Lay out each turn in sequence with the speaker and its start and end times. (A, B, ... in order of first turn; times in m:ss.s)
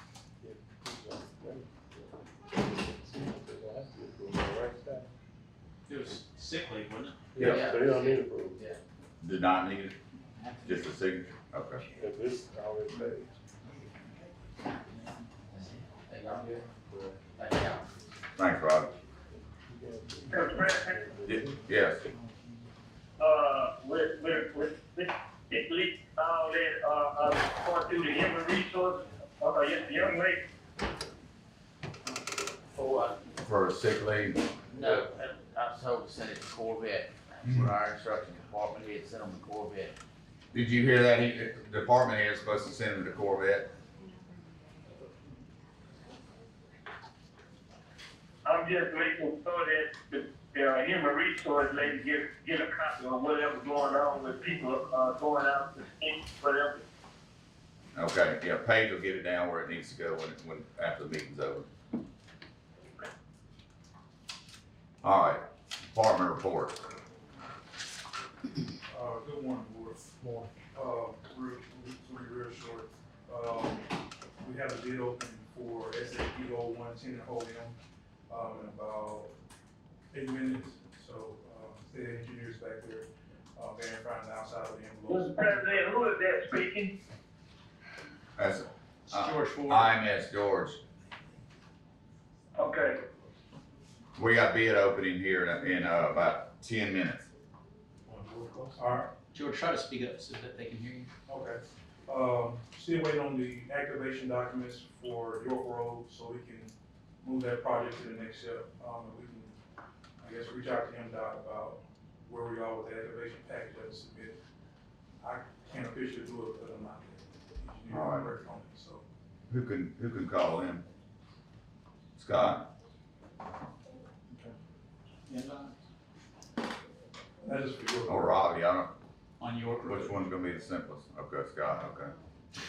0:00.4-0:05.1 A
0:05.9-0:07.3 B
0:07.3-0:08.6 A
0:07.4-0:08.8 C
0:07.4-0:07.6 D
0:09.2-0:10.0 D
0:10.3-0:10.9 B
0:10.6-0:11.8 D
0:12.0-0:13.4 A
0:15.5-0:16.7 C
0:17.4-0:17.9 C
0:18.4-0:18.9 D
0:19.7-0:21.6 A
0:20.3-0:21.0 E
0:21.2-0:22.1 D
0:23.2-0:30.4 E
0:32.7-0:33.2 C
0:33.4-0:34.4 D
0:34.7-0:40.0 C
0:37.4-0:37.7 D
0:40.5-0:43.7 D
0:48.4-0:56.8 E
0:57.9-1:01.7 D
1:05.0-1:06.8 D
1:08.9-1:10.1 F
1:10.7-1:17.8 F
1:18.3-1:19.3 F
1:20.1-1:25.9 F
1:25.1-1:26.9 E
1:28.4-1:30.8 D
1:29.1-1:30.0 B
1:32.6-1:33.0 E
1:34.2-1:37.3 D
1:38.7-1:39.1 F
1:39.3-1:41.1 B
1:41.3-1:49.6 F
1:50.2-1:54.4 F
1:55.2-1:59.0 F
1:57.9-1:58.4 D
1:59.5-2:00.8 D
2:02.2-2:02.7 D
2:05.3-2:05.8 B
2:07.4-2:08.5 F
2:08.1-2:08.9 D
2:09.4-2:10.3 B
2:09.8-2:12.1 D